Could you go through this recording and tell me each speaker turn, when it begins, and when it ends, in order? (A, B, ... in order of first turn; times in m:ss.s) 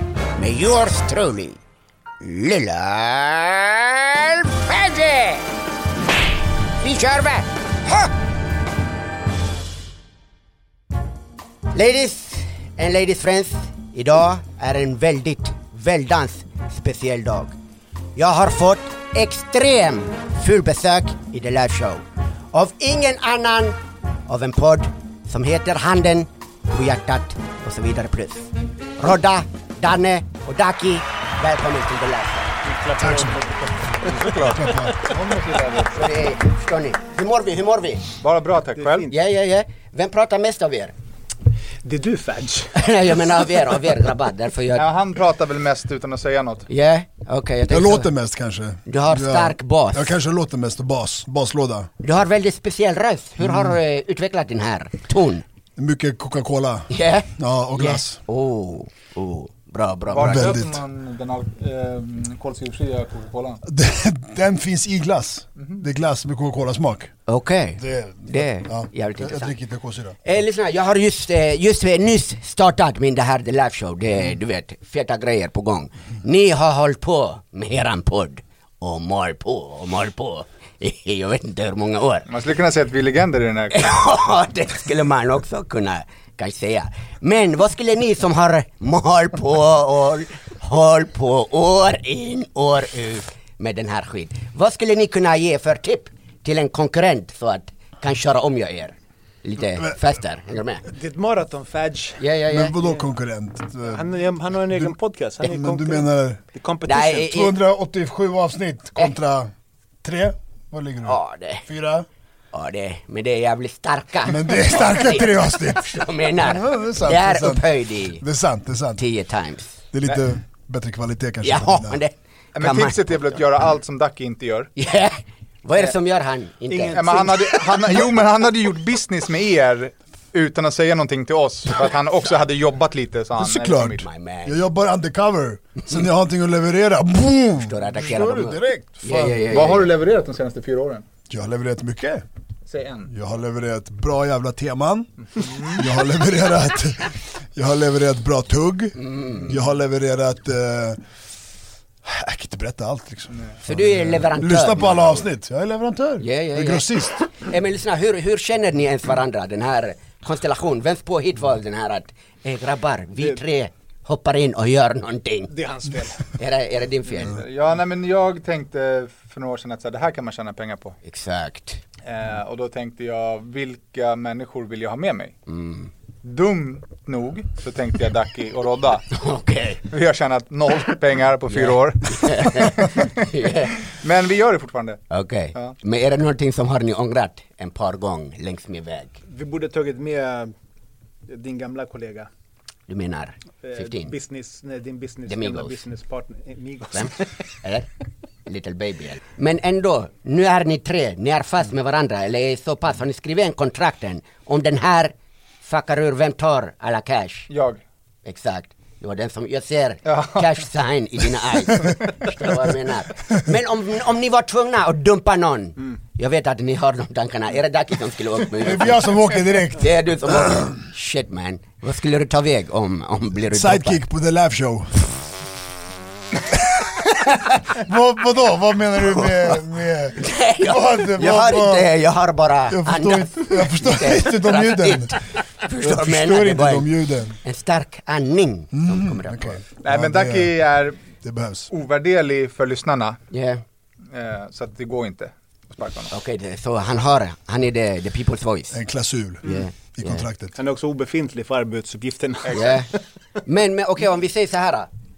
0:00.4-0:01.6 A
0:02.2-0:05.5 A
0:06.8-0:08.1 A
0:11.7-0:17.5 A
0:18.2-0:32.6 A
0:32.6-0:35.1 B
0:33.0-0:33.4 C
0:34.0-0:36.1 D
0:34.5-0:34.9 C
0:35.9-0:38.1 A
0:38.2-0:39.1 D
0:38.8-0:39.1 B
0:39.1-0:40.9 A
0:41.8-0:43.6 B
0:42.7-0:44.8 A
0:44.7-0:46.7 D
0:46.7-0:48.1 A
0:47.7-0:51.9 C
0:48.8-0:50.1 A
0:52.0-0:55.4 A
0:53.4-0:53.7 C
0:55.8-0:58.2 C
0:56.9-1:00.6 A
1:00.1-1:03.6 D
1:00.2-1:00.8 C
1:03.6-1:07.1 C
1:05.6-1:05.8 D
1:07.3-1:09.6 A
1:07.8-1:10.2 C
1:10.2-1:22.3 A
1:22.3-1:24.1 D
1:23.7-1:40.8 A
1:40.9-1:42.2 B
1:42.2-1:42.8 A
1:42.5-1:44.1 C
1:43.8-1:47.4 B
1:44.6-1:46.4 C
1:46.8-1:47.6 A
1:47.1-1:49.5 C
1:50.0-1:52.1 C
1:51.0-1:51.6 A
1:52.5-1:58.2 A
1:54.2-1:57.6 C
1:58.2-1:59.0 C
1:59.0-1:59.8 A
1:59.9-2:02.0 C
2:01.4-2:03.4 A
2:02.6-2:04.7 D
2:04.8-2:07.3 A
2:06.7-2:07.9 B
2:06.9-2:14.0 D
2:13.4-2:19.5 C
2:14.0-2:14.6 A
2:17.6-2:19.9 A
2:19.5-2:21.0 D
2:21.3-2:22.2 C
2:22.7-2:23.1 D
2:23.1-2:25.1 C
2:25.3-2:25.8 D
2:25.6-2:31.0 C
2:29.0-2:29.6 A
2:32.0-2:37.2 C
2:33.6-2:35.2 A
2:36.2-2:45.5 A
2:45.5-2:46.3 B
2:46.4-2:47.4 A
2:47.2-2:51.0 D
2:51.0-2:51.8 A
2:52.0-2:55.3 D
2:55.5-2:55.9 A
2:56.2-2:59.1 D
2:59.1-2:59.8 A
2:59.9-3:03.2 D
3:01.5-3:03.8 A
3:03.8-3:05.0 D
3:05.1-3:09.2 A
3:09.2-3:10.5 B
3:11.3-3:12.3 B
3:12.9-3:14.1 A
3:13.6-3:17.3 B
3:15.3-3:15.8 A
3:16.9-3:17.9 A
3:18.4-3:27.5 A
3:27.5-3:27.8 D
3:28.2-3:44.0 A
3:30.0-3:30.5 D
3:38.6-3:40.6 C
3:43.5-3:45.1 C
3:46.5-3:46.9 C
3:47.2-3:47.6 A
3:47.7-3:51.9 C
3:50.1-3:56.9 A
3:52.7-3:55.2 C
3:55.8-3:57.4 C
3:57.4-3:59.6 A
3:58.7-4:00.5 C
3:59.8-4:01.0 D
4:01.2-4:01.7 C
4:01.7-4:03.2 D
4:03.3-4:03.6 A
4:04.1-4:06.1 D
4:06.1-4:08.8 A
4:08.7-4:10.5 C
4:09.4-4:10.2 A
4:10.5-4:13.0 B
4:12.5-4:12.9 A
4:13.4-4:14.9 A